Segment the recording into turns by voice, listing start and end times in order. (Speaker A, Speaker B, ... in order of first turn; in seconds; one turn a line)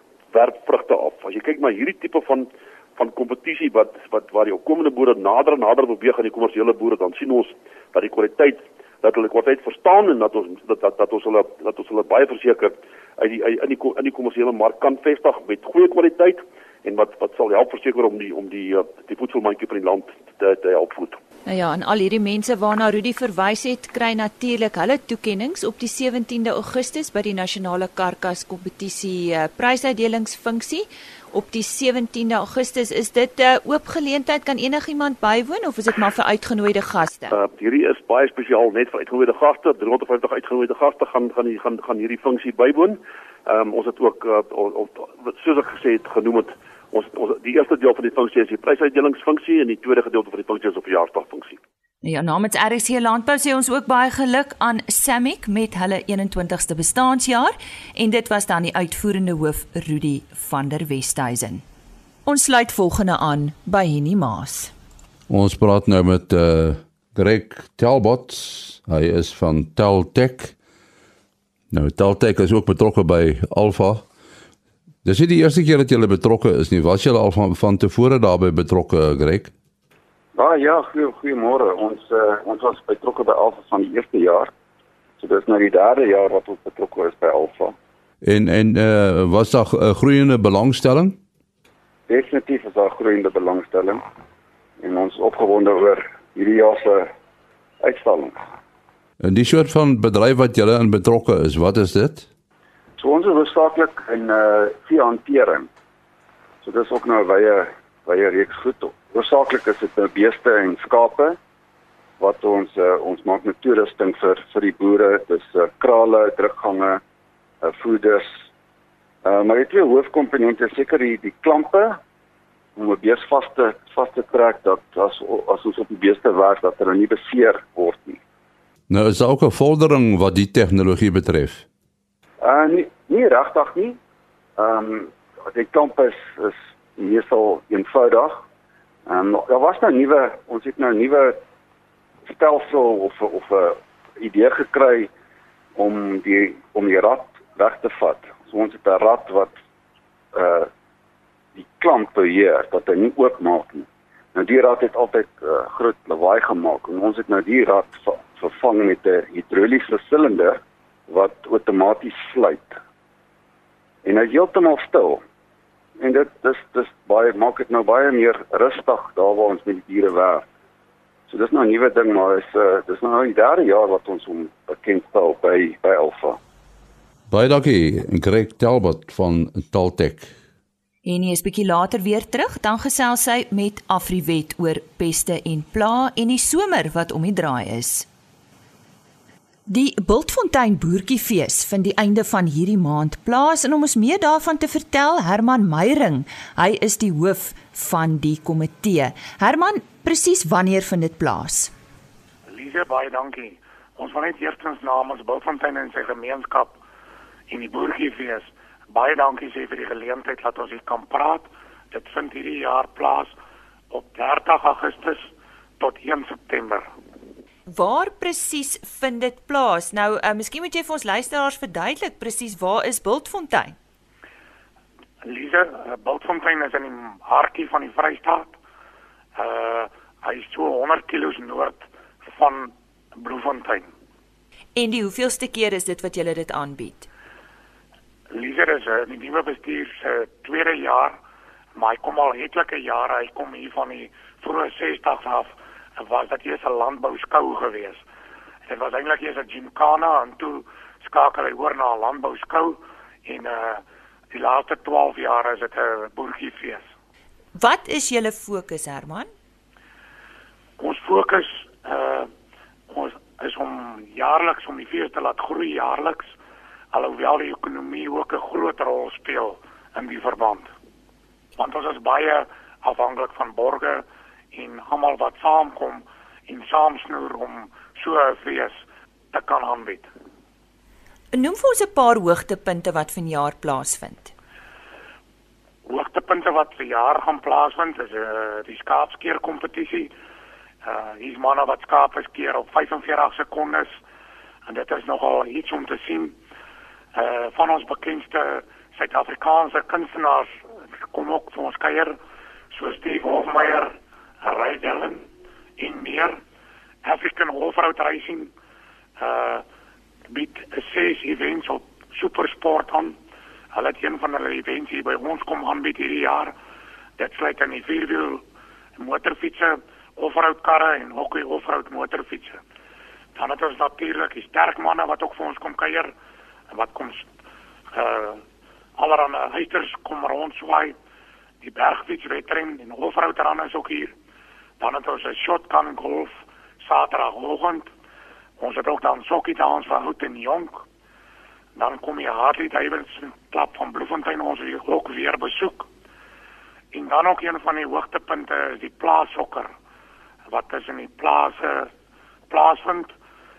Speaker A: 0.3-21.2
Speaker B: 21.4-37.4
Speaker A: 37.3-51.6
Speaker B: 52.0-61.6
Speaker B: 62.2-64.7
Speaker C: 65.3-70.5
Speaker C: 71.7-74.0
Speaker C: 75.0-79.5
Speaker D: 80.3-84.5
Speaker D: 85.2-87.8
Speaker C: 88.2-91.2
Speaker D: 92.1-94.0
Speaker D: 94.8-97.1
Speaker D: 97.8-98.3
Speaker C: 99.2-102.3
Speaker D: 103.0-105.7
Speaker D: 106.6-111.4
Speaker D: 112.2-117.0
Speaker D: 117.6-118.4
Speaker D: 119.2-122.0
Speaker D: 122.8-128.2
Speaker C: 128.9-131.6
Speaker D: 132.4-134.0
Speaker D: 134.6-138.4
Speaker D: 139.1-141.4
Speaker D: 142.2-145.1
Speaker D: 145.8-149.5
Speaker D: 150.3-150.7
Speaker D: 151.6-162.8
Speaker D: 164.0-165.2
Speaker D: 166.0-170.4
Speaker D: 171.3-176.4
Speaker C: 177.3-180.3
Speaker B: 181.0-188.1
Speaker B: 189.7-201.7
Speaker E: 202.5-206.8
Speaker E: 207.5-213.3
Speaker E: 213.9-216.9
Speaker B: 217.7-223.8
Speaker E: 225.2-228.5
Speaker E: 229.3-233.9
Speaker B: 234.7-237.1
Speaker E: 238.3-241.2
Speaker E: 241.8-248.0
Speaker E: 248.7-256.9
Speaker B: 257.6-259.3
Speaker E: 260.8-262.3
Speaker E: 262.9-266.3
Speaker E: 266.9-270.7
Speaker E: 271.6-280.1
Speaker B: 281.3-284.3
Speaker E: 285.9-290.1
Speaker E: 290.8-294.0
Speaker E: 294.6-296.4
Speaker E: 297.1-300.6
Speaker E: 301.1-302.2
Speaker E: 302.7-305.2
Speaker E: 305.8-306.4
Speaker E: 307.0-308.5
Speaker E: 309.2-309.6
Speaker E: 310.3-313.2
Speaker E: 313.7-316.5
Speaker E: 317.2-318.4
Speaker E: 319.0-322.6
Speaker E: 323.4-326.1
Speaker E: 326.7-327.3
Speaker E: 327.9-328.4
Speaker E: 329.0-330.9
Speaker E: 331.6-334.1
Speaker E: 334.8-337.9
Speaker E: 338.6-340.8
Speaker E: 341.8-345.9
Speaker E: 346.9-349.7
Speaker E: 350.5-351.9
Speaker E: 352.5-353.1